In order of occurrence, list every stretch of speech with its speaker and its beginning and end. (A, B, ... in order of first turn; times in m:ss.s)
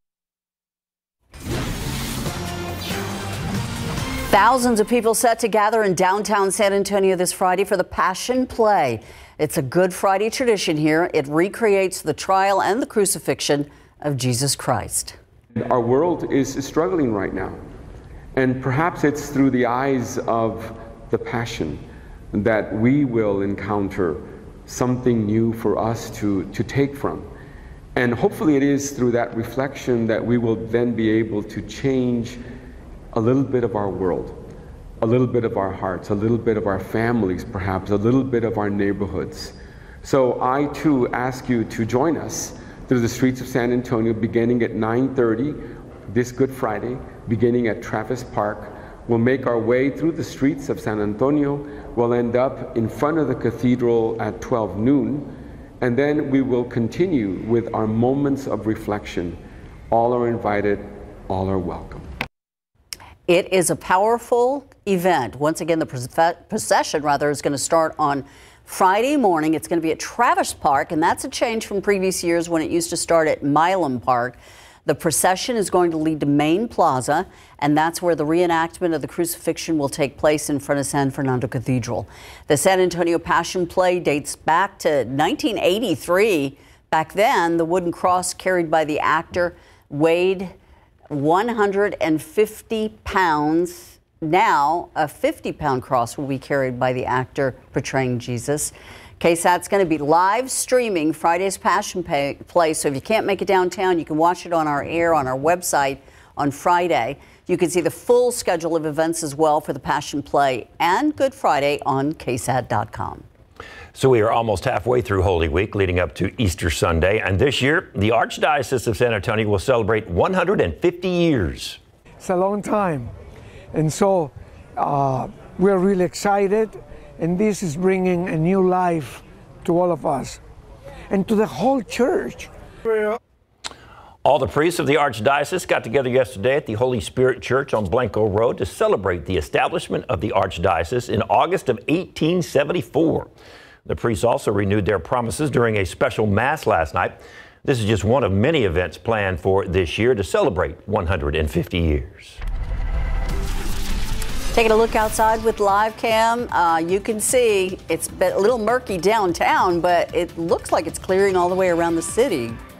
0:04.3-0:15.2 A
0:15.5-0:17.6 B
0:18.4-0:27.3 B
0:28.0-0:32.4 B
0:33.1-0:34.4 B
0:35.0-0:59.4 B
0:59.9-1:02.1 B
1:03.3-1:30.5 A
1:31.1-1:53.2 A
1:53.9-2:01.8 C
2:02.2-2:03.1 D
2:03.7-2:10.4 D
2:11.1-2:12.5 D
2:14.2-2:23.3 C
2:23.8-2:32.4 C
2:34.5-2:42.6 A